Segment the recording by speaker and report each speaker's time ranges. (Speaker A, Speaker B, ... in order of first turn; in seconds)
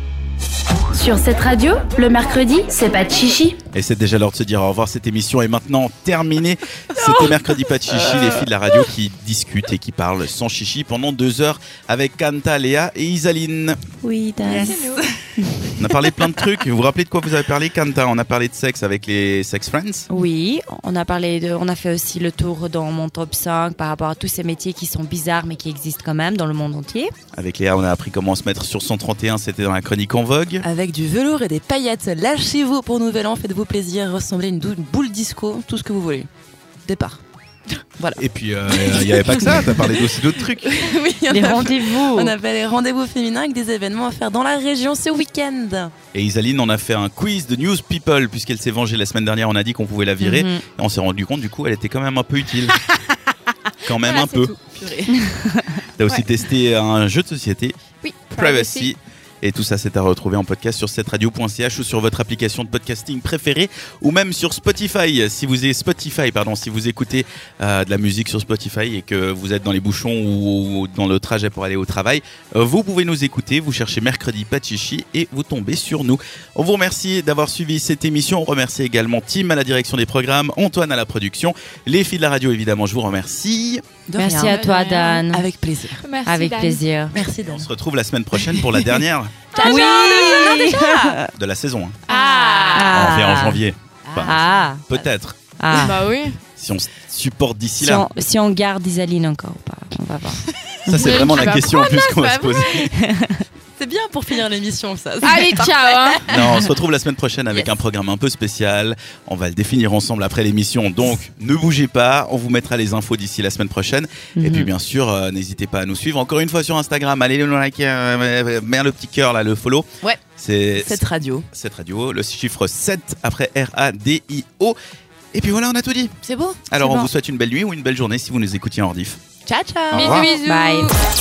Speaker A: 0.9-3.6
Speaker B: 3.7-13.8, 15.8-20.1, 27.4-30.6, 38.2-40.8, 46.1-52.8, 53.9-54.5, 56.0-57.8, 58.4-83.8, 87.5-89.4, 91.3-92.0, 92.9-95.4, 96.6-98.1, 100.9-102.9, 106.3-124.8, 125.3-126.1, 126.7-129.2, 129.9-130.3
Speaker C: 6.9-7.3, 7.9-8.5, 14.0-14.8, 15.3-16.3, 30.6-36.3, 36.8-37.2, 38.0-45.9, 54.7-55.4, 84.1-84.7, 85.3-86.0, 87.1-87.7, 88.4-89.0, 89.6-91.2, 94.0-94.7, 103.8-106.7, 114.4-114.7, 120.8-121.5, 126.2-127.1, 129.5-130.3
Speaker D: 14.4-14.7, 20.1-27.1, 41.3-42.3, 50.2-50.6, 84.2-85.5, 86.3-87.2, 89.6-91.2, 92.1-93.6, 94.2-95.0, 95.6-96.0, 97.8-101.2, 103.0-103.4, 130.2-130.9
Speaker E: 14.5-15.1, 54.0-54.6, 58.0-58.9, 84.4-85.2, 86.0-86.8, 89.5-91.1, 92.1-93.0, 95.7-96.4, 101.0-102.9, 105.2-106.3, 129.9-130.9